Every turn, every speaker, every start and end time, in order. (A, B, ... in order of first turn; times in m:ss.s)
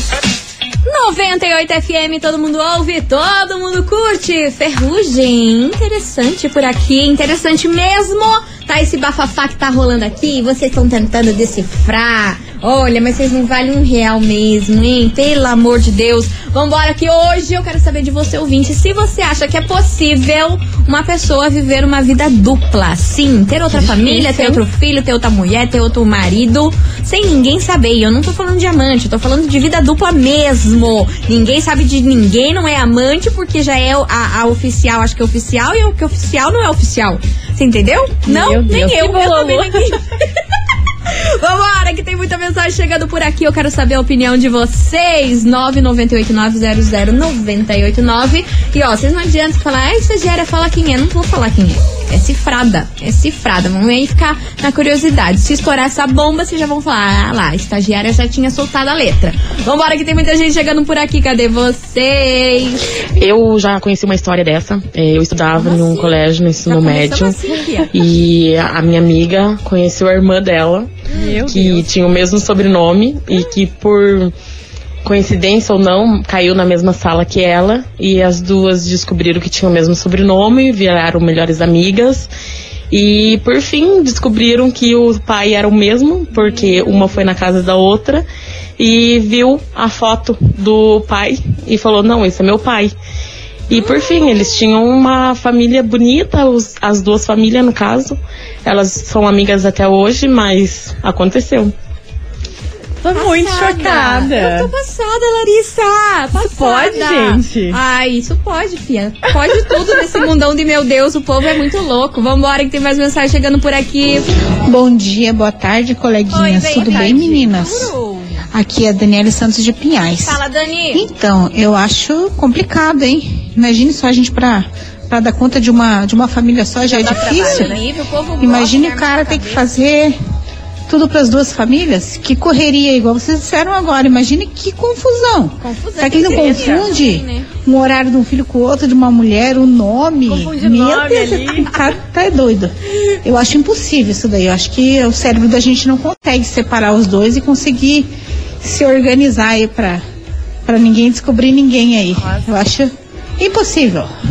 0:00.8-0:40.1 A
0:23.7-0:24.6 B
0:38.3-0:39.9 B
0:41.1-1:02.8 A
1:03.2-1:07.4 C
1:05.6-1:07.9 A
1:07.9-1:10.9 C
1:11.1-1:11.4 A
1:11.1-1:11.9 B
1:11.5-1:14.3 C
1:15.0-1:22.3 C
1:22.9-1:33.0 C
1:26.4-1:27.2 B
1:33.7-1:41.7 C
1:43.0-1:44.7 B
1:43.2-1:54.3 A
1:46.4-1:47.8 B
1:49.5-1:50.2 B
1:54.7-1:57.9 D
1:56.3-1:58.4 A
1:58.5-2:00.4 D
2:00.2-2:01.0 A
2:00.9-2:07.8 D
2:06.8-2:09.6 A
2:07.0-2:07.8 B
2:08.4-2:10.2 D
2:10.9-2:30.0 D
2:15.6-2:17.5 A
2:20.3-2:21.7 B
2:30.6-2:34.1 D
2:32.2-2:32.5 B